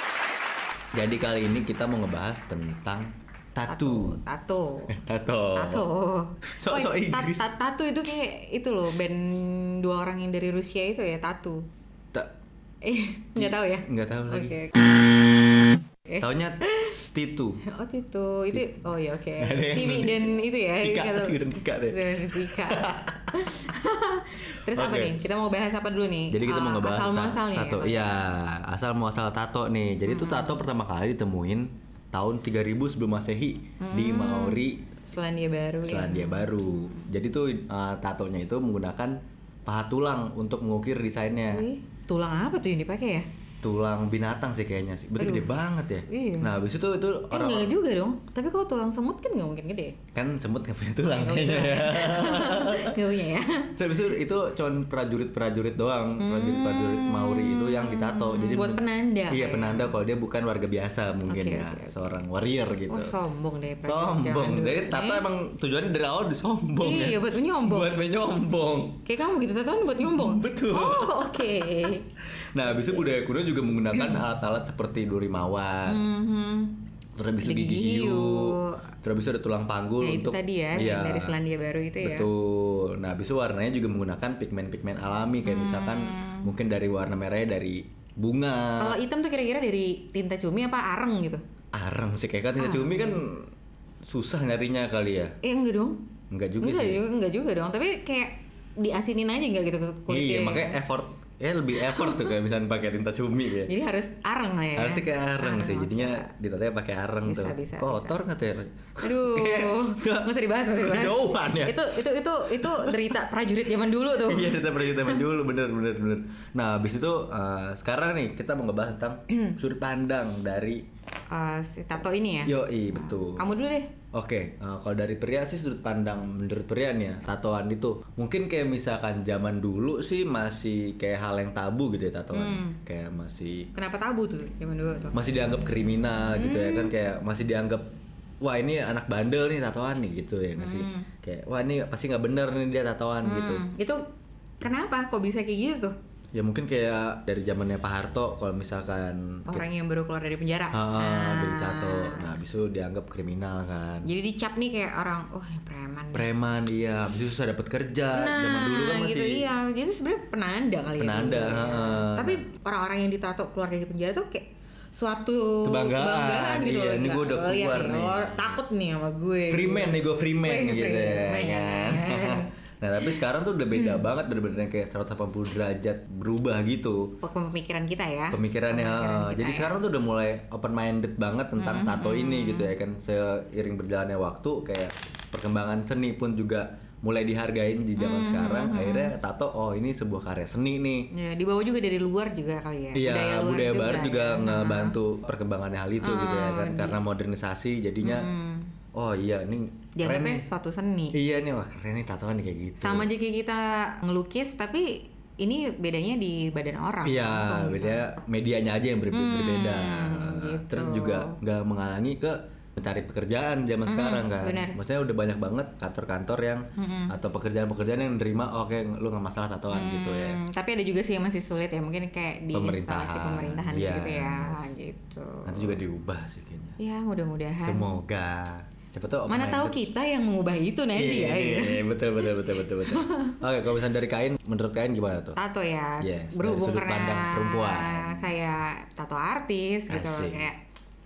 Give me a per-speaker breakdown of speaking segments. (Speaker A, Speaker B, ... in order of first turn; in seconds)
Speaker A: 0.9-4.2, 4.9-5.8, 6.5-7.5, 13.4-14.9, 16.2-17.6, 19.4-23.4, 24.7-25.2, 26.3-34.8, 35.8-41.6, 43.6-47.8, 50.1-53.1, 53.8-63.2, 63.8-69.1, 70.0-71.5, 72.5-76.0, 77.2-81.4, 82.0-89.0, 91.7-93.5, 94.0-95.4, 96.3-97.0, 100.1-103.7, 104.8-113.2, 114.2-120.8, 122.5-123.5, 124.1-133.7, 135.1-137.9, 138.4-143.6, 146.3-149.7, 150.7-154.1, 156.1-159.4, 161.0-162.4, 165.6-168.6, 169.5-177.1, 178.3-191.1, 192.9-198.3, 198.9-200.5, 201.1-203.1, 207.0-220.4, 222.5-224.7, 225.5-226.8, 227.6-229.8, 230.9-235.4, 236.0-238.3, 239.9-240.5
Speaker B: 3.7-5.0, 5.5-11.6, 12.8-15.5, 16.1-17.0, 17.6-28.2, 30.1-30.6, 33.8-36.9, 41.5-43.3, 45.2-45.5, 46.1-46.5, 47.3-50.0, 51.1-54.2, 56.2-60.0, 61.3-62.2, 62.9-65.2, 66.8-68.0, 69.1-72.1, 72.6-73.0, 73.9-74.2, 75.9-76.8, 77.4-78.8, 80.0-82.3, 85.5-86.5, 88.8-91.4, 92.6-93.2, 95.4-96.0, 96.6-100.8, 101.8-102.3, 103.7-106.3, 107.3-108.2, 109.0-115.2, 119.3-119.6, 121.3-123.9, 132.3-132.8, 133.7-135.2, 136.3-136.9, 140.6-141.1, 143.2-144.0, 144.6-145.9, 149.5-152.4, 154.1-156.3, 158.1-172.5, 173.7-174.0, 177.2-179.8, 181.6-182.7, 188.0-189.1, 191.1-195.0, 196.0-197.0, 198.0-198.7, 200.0-201.2, 202.8-208.1, 209.1-211.4, 213.9-214.8, 216.8-217.1, 219.7-225.8, 226.8-227.9, 229.3-233.4, 235.4-240.6